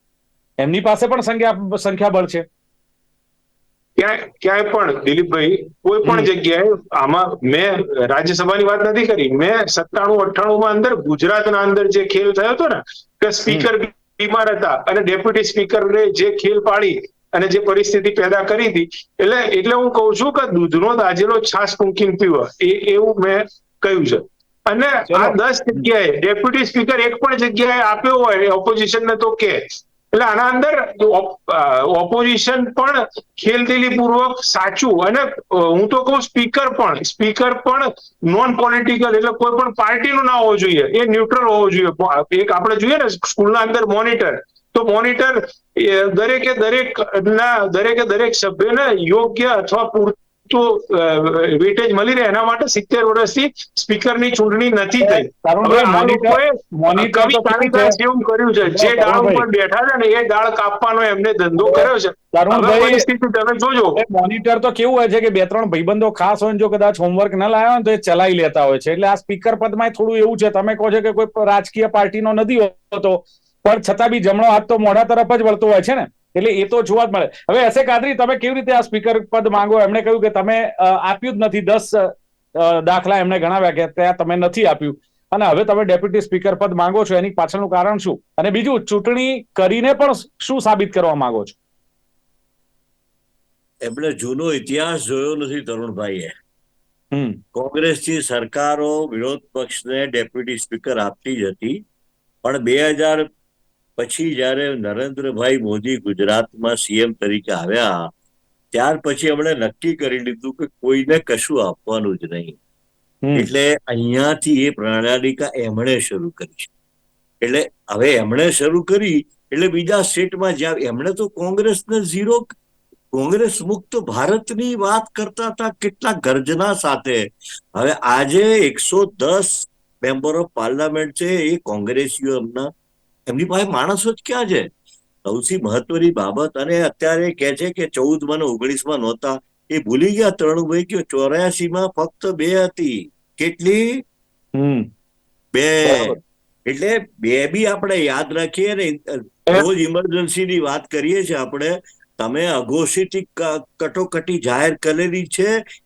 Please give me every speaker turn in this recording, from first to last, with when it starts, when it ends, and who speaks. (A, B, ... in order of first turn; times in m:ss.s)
0:00.6-0:02.4 A
0:04.0-1:04.0 B
0:06.0-0:06.3 A
0:25.1-0:25.9 A
0:55.0-0:58.0 A
0:58.7-0:59.4 A
1:01.6-1:03.0 A
1:04.0-1:31.6 A
1:33.8-1:36.3 C
1:37.1-1:37.4 A
1:37.5-1:41.8 C
1:42.4-1:43.2 C
1:44.0-1:48.1 C
1:48.7-1:52.6 C
1:53.3-1:56.7 C
1:57.4-2:02.5 C
2:03.1-2:12.7 C
2:13.3-2:14.7 C
2:15.3-2:24.0 C
2:24.6-2:24.8 A
2:25.5-2:26.1 C
2:25.9-2:26.2 A
2:26.7-2:35.5 C